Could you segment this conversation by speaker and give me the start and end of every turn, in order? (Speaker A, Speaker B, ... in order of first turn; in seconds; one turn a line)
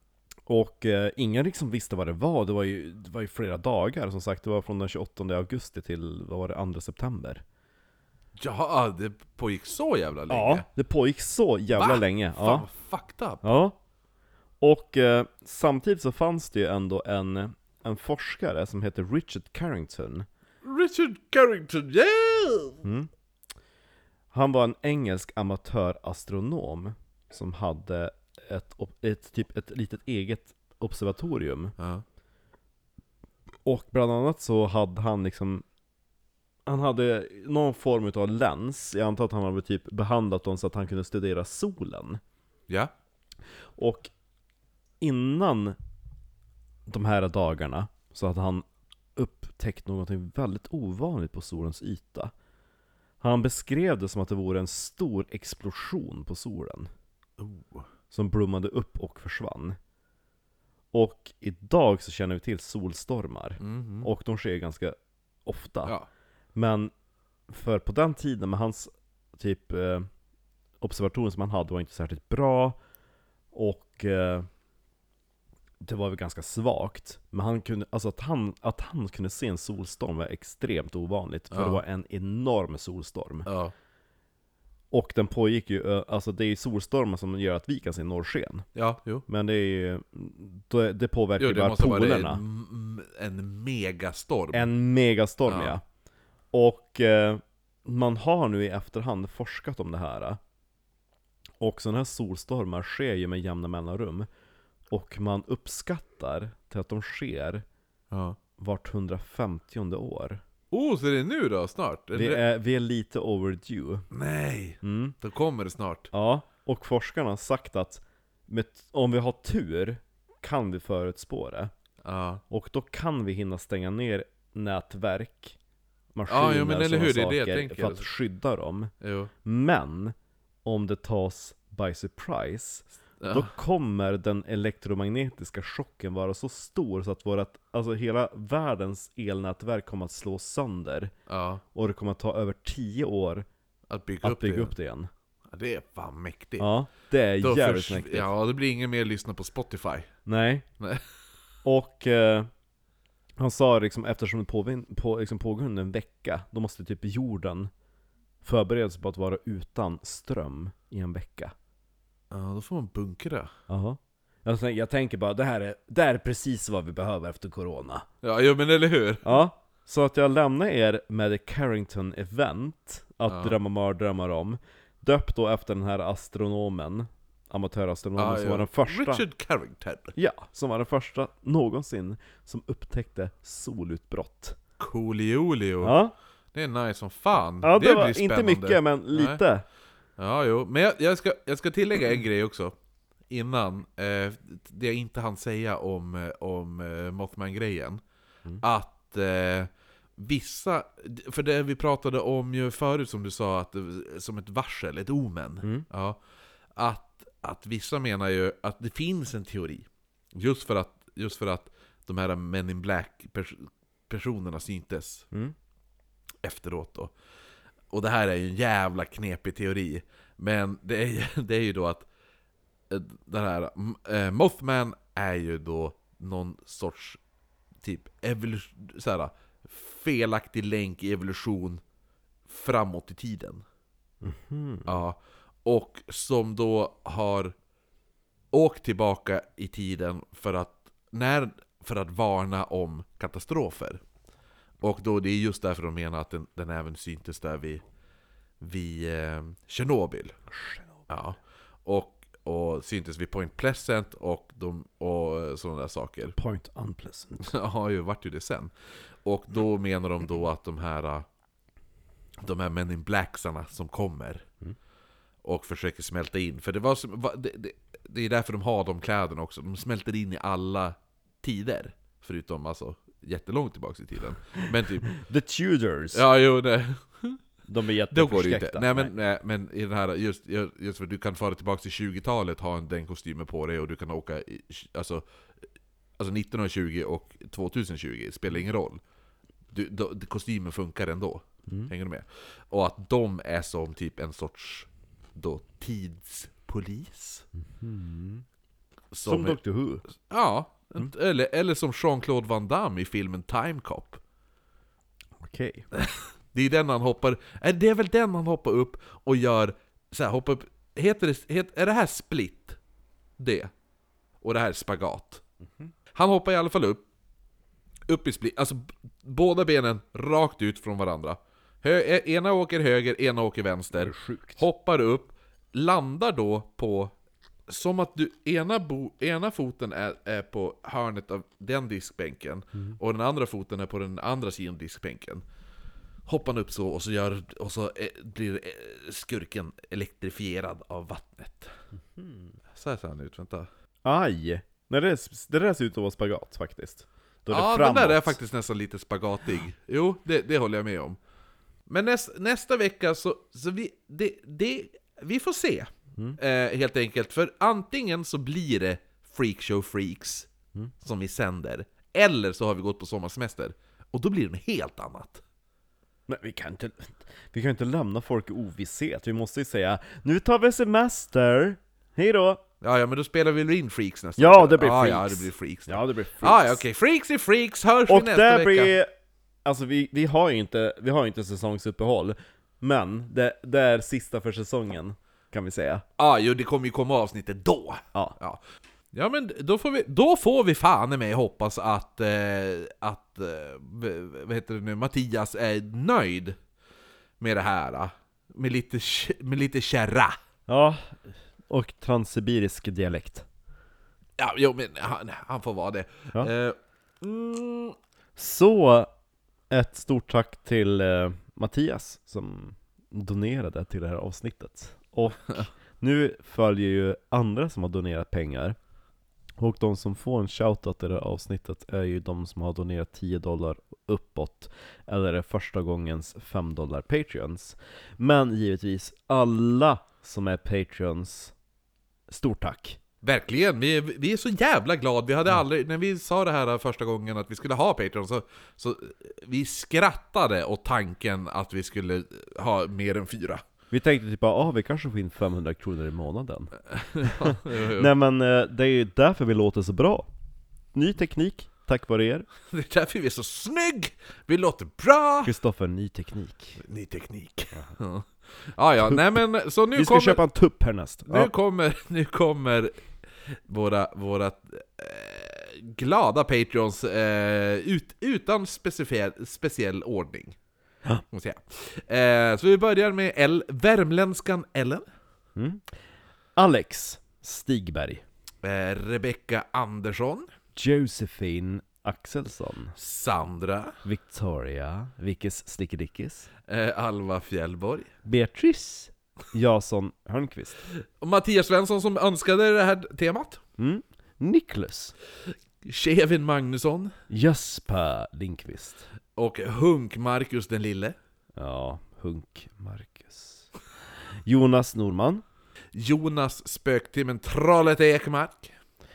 Speaker A: 0.5-7.4
Speaker B: 8.4-10.7
Speaker A: 10.3-12.7
Speaker B: 11.7-13.4
Speaker A: 13.4-13.8
Speaker A: 14.6-20.3
Speaker B: 20.6-22.8
Speaker A: 22.8-23.1
Speaker A: 24.3-31.7
Speaker B: 31.8-32.0
Speaker A: 33.6-35.6
Speaker A: 36.7-42.2
Speaker A: 43.8-44.1
Speaker A: 45.0-45.8
Speaker A: 46.9-48.6
Speaker A: 49.2-52.3
Speaker A: 53.2-56.9
Speaker B: 57.4-57.9
Speaker A: 58.1-59.8
Speaker A: 60.9-66.0
Speaker B: 63.6-64.1
Speaker A: 66.5-66.9
Speaker A: 67.5-70.1
Speaker A: 70.8-72.8
Speaker A: 73.5-74.5
Speaker A: 75.8-83.5
Speaker B: 81.5-81.8
Speaker B: 83.5-83.7
Speaker A: 84.9-88.7
Speaker B: 88.8-89.2
Speaker A: 89.3-92.4
Speaker B: 91.4-94.7
Speaker A: 94.5-95.8
Speaker B: 95.5-95.8
Speaker A: 96.5-100.4
Speaker A: 101.6-104.3
Speaker A: 104.9-107.6
Speaker B: 108.1-108.4
Speaker A: 108.6-110.4
Speaker B: 110.7-112.4
Speaker A: 112.1-114.1
Speaker B: 114.1-116.1
Speaker A: 114.8-115.2
Speaker A: 116.1-121.7
Speaker B: 122.0-122.4
Speaker A: 122.5-125.6
Speaker A: 126.2-128.9
Speaker B: 126.3-128.1
Speaker B: 129.0-129.3
Speaker A: 129.4-141.1
Speaker B: 133.2-133.5
Speaker B: 141.3-141.6
Speaker A: 141.7-143.5
Speaker B: 143.9-144.7
Speaker A: 144.2-145.1
Speaker B: 145.5-146.7
Speaker A: 146.6-148.3
Speaker B: 147.4-150.1
Speaker A: 150.3-150.7
Speaker B: 150.8-151.1
Speaker A: 151.7-152.5
Speaker A: 153.4-157.7
Speaker A: 158.4-161.5
Speaker B: 162.3-163.5
Speaker A: 163.7-168.1
Speaker B: 168.2-169.4
Speaker A: 169.2-179.2
Speaker B: 173.3-173.6
Speaker B: 178.2-180.1
Speaker A: 180.2-184.6
Speaker B: 184.8-186.0
Speaker A: 185.8-186.2
Speaker B: 186.5-189.4
Speaker A: 187.6-189.7
Speaker B: 190.2-192.8
Speaker B: 193.3-198.0
Speaker B: 198.6-206.2
Speaker B: 206.8-215.3
Speaker B: 216.4-217.1
Speaker B: 217.9-222.1
Speaker B: 222.9-227.2
Speaker B: 227.8-231.8
Speaker B: 232.5-233.6
Speaker A: 234.2-235.0
Speaker B: 234.9-237.6
Speaker B: 238.5-244.0
Speaker B: 244.8-247.8
Speaker B: 248.6-250.4
Speaker A: 250.5-250.9
Speaker B: 251.1-256.4
Speaker A: 256.4-257.5
Speaker B: 257.4-258.7
Speaker B: 259.2-261.3
Speaker B: 262.4-264.5
Speaker B: 265.4-275.1
Speaker A: 275.1-276.2
Speaker B: 276.1-277.4
Speaker A: 277.7-279.1
Speaker B: 278.1-285.2
Speaker B: 286.2-289.0
Speaker B: 289.7-297.5
Speaker A: 297.7-298.4
Speaker B: 299.1-299.6
Speaker A: 299.2-300.1
Speaker B: 300.1-304.2
Speaker A: 305.4-305.9
Speaker B: 305.9-312.8
Speaker B: 313.4-313.7
Speaker B: 314.4-315.4
Speaker B: 316.1-317.1
Speaker B: 318.1-327.1
Speaker A: 324.0-324.6
Speaker B: 327.7-335.4
Speaker B: 336.3-341.7
Speaker A: 342.2-342.5
Speaker B: 342.7-343.7
Speaker A: 344.1-348.4
Speaker B: 347.5-351.2
Speaker B: 351.9-360.5
Speaker B: 361.0-365.4
Speaker A: 366.3-372.6
Speaker B: 372.8-378.9
Speaker A: 374.4-376.8
Speaker A: 378.1-379.1
Speaker A: 379.6-386.0
Speaker B: 386.2-388.6
Speaker B: 389.1-396.6
Speaker B: 397.4-400.4
Speaker A: 400.7-403.5
Speaker B: 404.4-408.0
Speaker A: 408.4-409.1
Speaker A: 409.7-418.8
Speaker A: 419.6-431.5
Speaker A: 432.3-433.0
Speaker B: 433.2-443.6
Speaker A: 443.9-450.3
Speaker B: 446.9-448.1
Speaker A: 450.9-452.5
Speaker B: 452.7-455.5
Speaker A: 455.4-456.8
Speaker B: 456.8-460.4
Speaker A: 459.0-459.4
Speaker A: 459.9-461.5
Speaker B: 461.3-470.6
Speaker B: 471.3-475.0
Speaker A: 475.6-475.9
Speaker A: 476.6-478.2
Speaker B: 478.6-480.5
Speaker A: 480.8-482.9
Speaker B: 483.0-484.0
Speaker A: 484.0-486.5
Speaker B: 486.7-488.1
Speaker A: 488.2-490.8
Speaker B: 490.9-493.6
Speaker A: 493.8-495.1
Speaker B: 495.5-497.1
Speaker A: 497.3-499.1
Speaker B: 499.4-501.2
Speaker A: 501.6-503.7
Speaker A: 504.4-505.4
Speaker B: 505.9-508.7